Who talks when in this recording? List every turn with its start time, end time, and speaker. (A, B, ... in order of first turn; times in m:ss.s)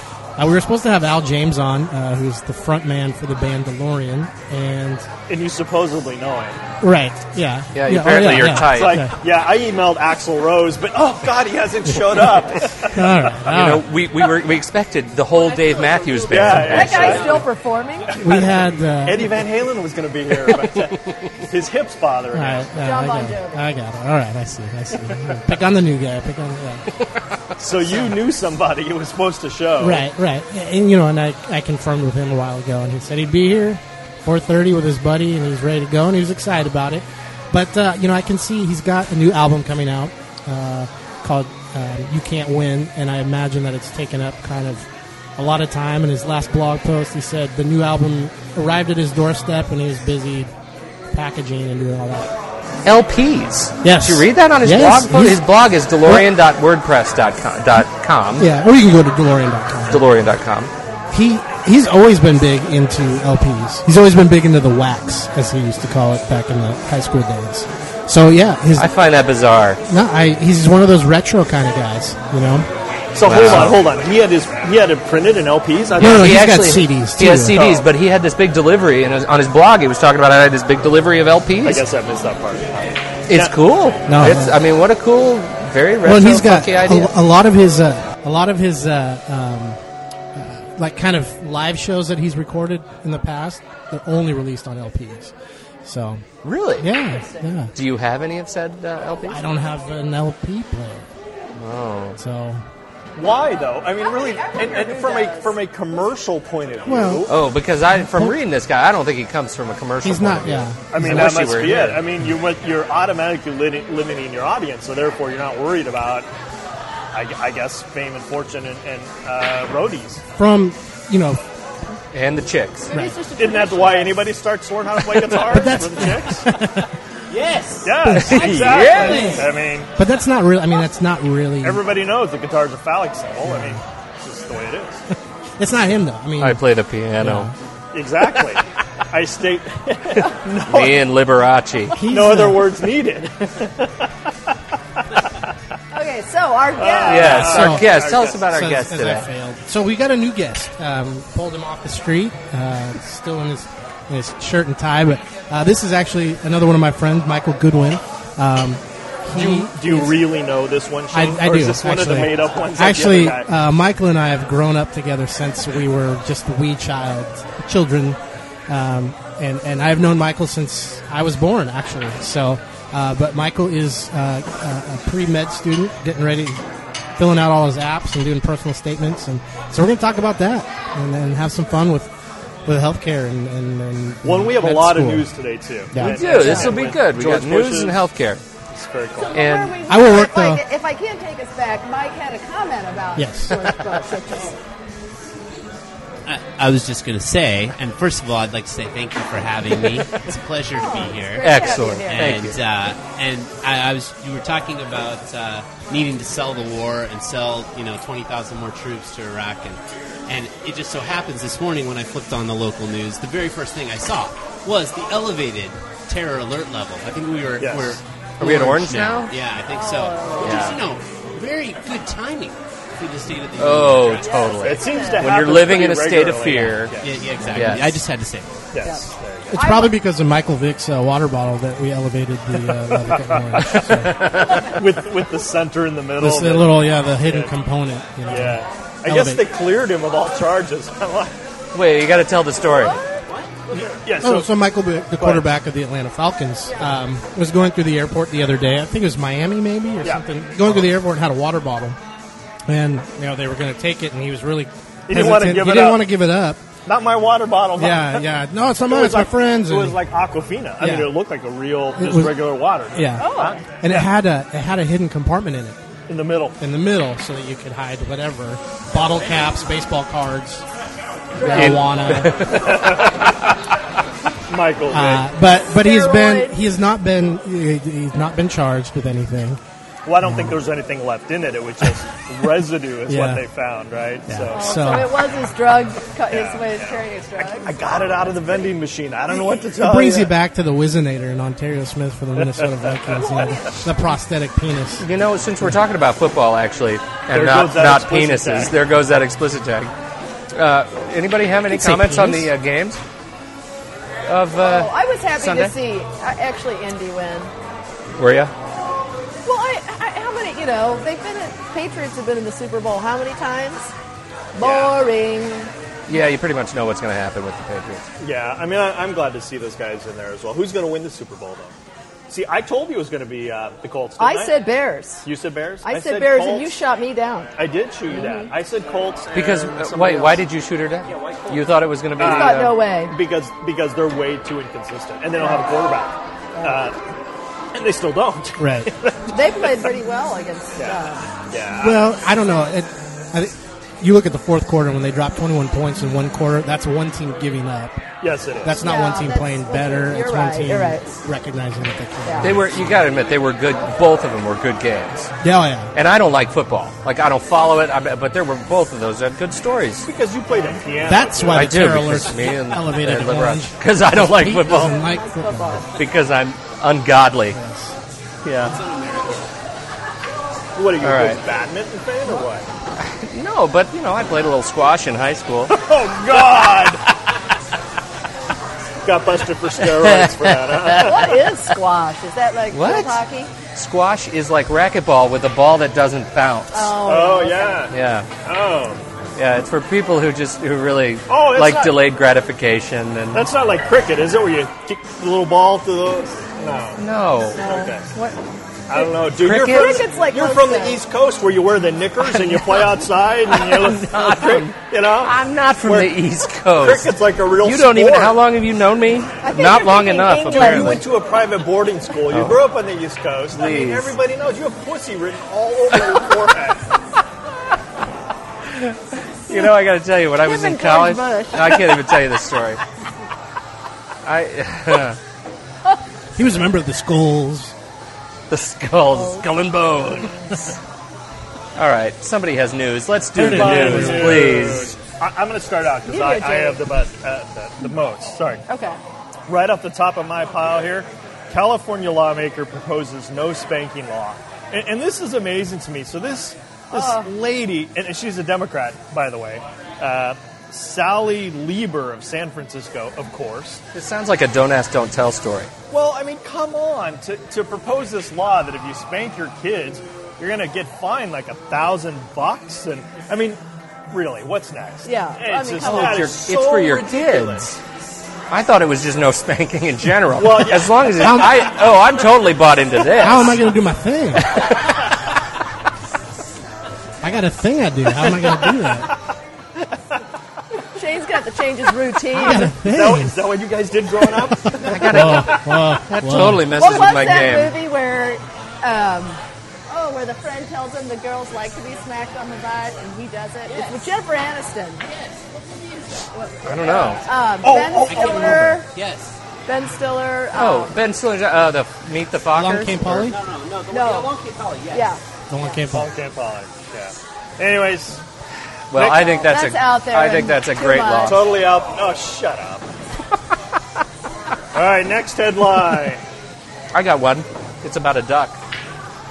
0:00.4-0:05.1 A
0:05.3-0:06.6 B
0:06.8-0:09.1 A
0:07.7-0:09.0 C
0:08.5-0:13.2 B
0:12.9-0:13.9 A
0:13.5-0:17.4 C
0:15.3-0:18.2 D
0:16.3-0:17.5 B
0:18.1-0:22.7 B
0:18.2-0:19.4 A
0:22.3-0:26.9 A
0:22.8-0:23.7 D
0:27.6-0:30.0 B
0:29.8-0:50.5 A
0:51.1-0:52.3 A
0:52.8-0:58.5 C
0:53.8-0:55.4 A
0:58.4-1:00.0 A
0:59.9-1:00.7 C
1:01.1-1:08.9 A
1:08.8-1:09.8 C
1:09.9-1:12.7 A
1:13.1-1:16.4 B
1:13.2-1:13.8 C
1:13.3-1:13.7 A
1:16.0-1:17.6 A
1:16.0-1:21.8 C
1:17.5-1:17.9 B
1:21.6-1:23.6 B
1:23.3-1:27.1 C
1:24.1-1:24.6 A
1:26.0-1:29.8 A
1:30.3-1:36.2 A
1:36.4-1:36.9 C
1:36.8-1:37.7 A
1:37.8-1:39.4 C
1:39.3-1:41.1 A
1:41.6-1:42.2 C
1:42.2-1:42.6 A
1:43.2-1:47.3 B
1:44.0-1:45.6 D
1:46.8-1:47.3 A
1:47.3-1:52.0 C
1:48.0-1:48.4 A
1:50.0-1:51.2 A
1:50.9-1:56.3 B
1:57.1-2:00.2 B
2:00.4-2:01.4 A
2:02.1-2:02.9 C
2:02.9-2:04.2 D
2:02.9-2:03.2 A
2:03.4-2:06.5 B
2:05.1-2:06.9 A
2:07.3-2:08.0 E
2:07.8-2:09.9 B
2:08.0-2:11.8 A
2:08.3-2:09.2 C
2:08.5-2:09.5 E
2:08.7-2:09.4 D
2:11.6-2:15.0 B
2:13.5-2:13.8 A
2:15.6-2:16.6 A
2:16.4-2:17.5 C
2:17.2-2:17.5 A
2:17.9-2:21.1 B
2:20.7-2:22.0 C
2:21.9-2:22.8 A
2:22.0-2:24.1 B
2:25.9-2:27.7 D
2:26.8-2:28.4 B
2:27.0-2:29.3 C
2:27.3-2:40.3 A
2:39.3-2:43.5 B
2:41.1-2:56.6 A
2:57.2-3:02.1 A
3:02.6-3:05.3 A
3:04.2-3:08.0 B
3:05.9-3:06.4 A
3:06.0-3:08.4 C
3:06.3-3:06.8 D
3:08.7-3:09.4 B
3:09.1-3:14.6 D
3:09.3-3:09.8 C
3:09.9-3:10.6 A
3:13.2-3:13.6 A
3:16.3-3:44.5 E
3:20.7-3:22.4 D
3:21.4-3:22.6 C
3:37.6-3:38.0 B
3:38.4-3:39.3 C
3:39.7-3:40.7 D
3:40.4-3:40.8 C
3:43.6-3:47.0 C
3:44.2-3:45.4 D
3:44.5-3:47.4 B
3:47.0-3:48.5 E
3:47.5-3:47.9 C
3:48.7-3:49.7 B
3:48.8-3:50.0 D
3:49.5-3:54.3 A
3:53.6-3:57.6 B
3:53.8-3:54.8 C
3:56.2-3:59.4 A
3:58.3-4:01.4 B
4:01.7-4:03.0 C
4:02.6-4:03.2 D
4:03.7-4:04.5 B
4:04.2-4:12.0 A
4:05.2-4:05.4 B
4:06.7-4:06.9 D
4:10.0-4:10.9 B
4:12.7-4:16.6 A
4:15.1-4:16.0 B
4:16.9-4:18.3 B
4:17.8-4:20.0 A
4:18.8-4:24.1 B
4:20.8-4:21.1 A
4:22.0-4:25.8 A
4:23.2-4:23.6 D
4:26.1-4:26.6 B
4:26.6-4:30.6 A
4:31.4-4:31.8 D
4:31.4-4:32.4 A
4:31.5-4:33.3 C
4:32.5-4:33.4 B
4:34.5-4:35.3 B
4:34.9-4:39.6 A
4:35.7-4:36.6 D
4:40.0-4:45.0 B
4:40.2-4:40.6 A
4:43.1-4:43.4 A
4:44.3-4:45.2 A
4:44.5-4:48.7 D
4:46.3-4:50.3 B
4:49.8-4:55.1 A
4:52.4-4:53.5 B
4:53.1-4:53.8 D
4:55.0-4:59.9 C
4:57.3-4:58.8 B
5:00.5-5:03.0 C
5:01.7-5:02.5 E
5:04.2-5:05.7 C
5:04.5-5:07.5 D
5:08.2-5:08.5 C
5:09.4-5:13.9 D
5:14.5-5:15.7 D
5:14.6-5:15.0 B
5:16.1-5:18.1 C
5:18.2-5:21.8 B
5:22.3-5:24.6 B
5:24.2-5:25.3 D
5:25.2-5:26.7 B
5:25.8-5:27.5 D
5:27.6-5:30.4 B
5:28.1-5:28.5 D
5:29.3-5:32.8 C
5:32.2-5:37.0 B
5:32.2-5:33.1 D
5:37.7-5:39.7 B
5:38.6-5:38.9 A
5:39.3-5:41.3 D
5:40.8-5:42.1 B
5:41.8-5:48.0 A
5:48.2-5:48.8 B
5:48.6-5:52.7 A
5:48.8-5:51.1 D
5:52.2-5:52.5 D
5:52.4-5:55.3 C
5:55.4-5:55.9 A
5:55.9-6:00.1 C
6:00.1-6:02.0 B
6:01.1-6:05.9 A
6:01.5-6:05.0 C
6:05.1-6:05.8 D
6:05.9-6:07.6 C
6:07.5-6:08.0 A
6:08.4-6:08.8 C
6:08.7-6:09.4 E
6:10.8-6:12.7 B
6:11.0-6:11.4 C
6:13.0-6:15.7 C
6:15.7-6:17.0 B
6:19.0-6:21.4 B
6:19.8-6:21.3 C
6:20.9-6:23.5 D
6:22.7-6:23.2 C
6:23.7-6:27.0 C
6:26.7-6:27.9 D
6:27.0-6:29.0 B
6:27.9-6:28.3 C
6:29.4-6:33.5 C
6:31.3-6:32.0 B
6:33.3-6:37.0 B
6:37.0-6:37.6 C
6:37.6-6:38.4 D
6:37.6-6:38.1 B
6:38.9-6:46.2 B
6:39.2-6:40.1 C
6:39.5-6:41.0 D
6:42.2-6:51.0 C
6:46.8-6:48.4 B
6:49.4-6:51.0 D
6:50.5-6:56.8 B
6:52.3-6:52.6 C
6:53.5-6:54.2 C
6:58.7-7:02.8 C
6:59.5-6:59.7 D
7:00.4-7:02.2 D
7:04.2-7:05.2 C
7:06.4-7:07.7 A
7:08.5-7:10.8 C
7:09.1-7:09.5 D
7:10.2-7:10.5 D
7:11.8-7:15.0 C
7:13.4-7:18.6 B
7:16.1-7:16.8 D
7:18.7-7:19.0 D
7:19.5-7:33.8 B
7:26.9-7:27.3 D
7:33.9-7:35.7 C
7:35.9-7:47.7 B
7:45.0-7:46.4 D
7:45.8-7:47.8 C
7:48.5-7:53.6 C
7:50.4-7:51.5 B
7:51.2-7:51.7 A
7:53.1-7:54.6 A
7:54.5-7:54.9 C
7:57.2-7:59.1 A
8:01.0-8:02.7 D
8:02.3-8:03.4 A
8:02.8-8:05.9 B
8:04.5-8:06.8 A
8:04.8-8:07.7 C
8:06.8-8:15.1 D
8:13.7-8:14.1 E
8:15.8-8:16.2 E
8:16.3-8:18.9 D
8:16.6-8:17.3 C
8:17.6-8:18.8 B
8:18.1-8:19.4 E
8:19.7-8:21.0 D
8:20.5-8:23.4 C
8:22.5-8:23.4 A
8:23.3-8:25.1 E
8:23.9-8:24.4 D
8:24.9-8:25.2 D
8:25.5-8:26.1 A
8:25.9-8:28.2 B
8:28.9-8:31.5 C
8:28.9-8:29.3 B
8:29.1-8:31.4 D
8:31.3-8:32.9 B
8:34.7-8:36.2 B
8:36.9-8:38.6 C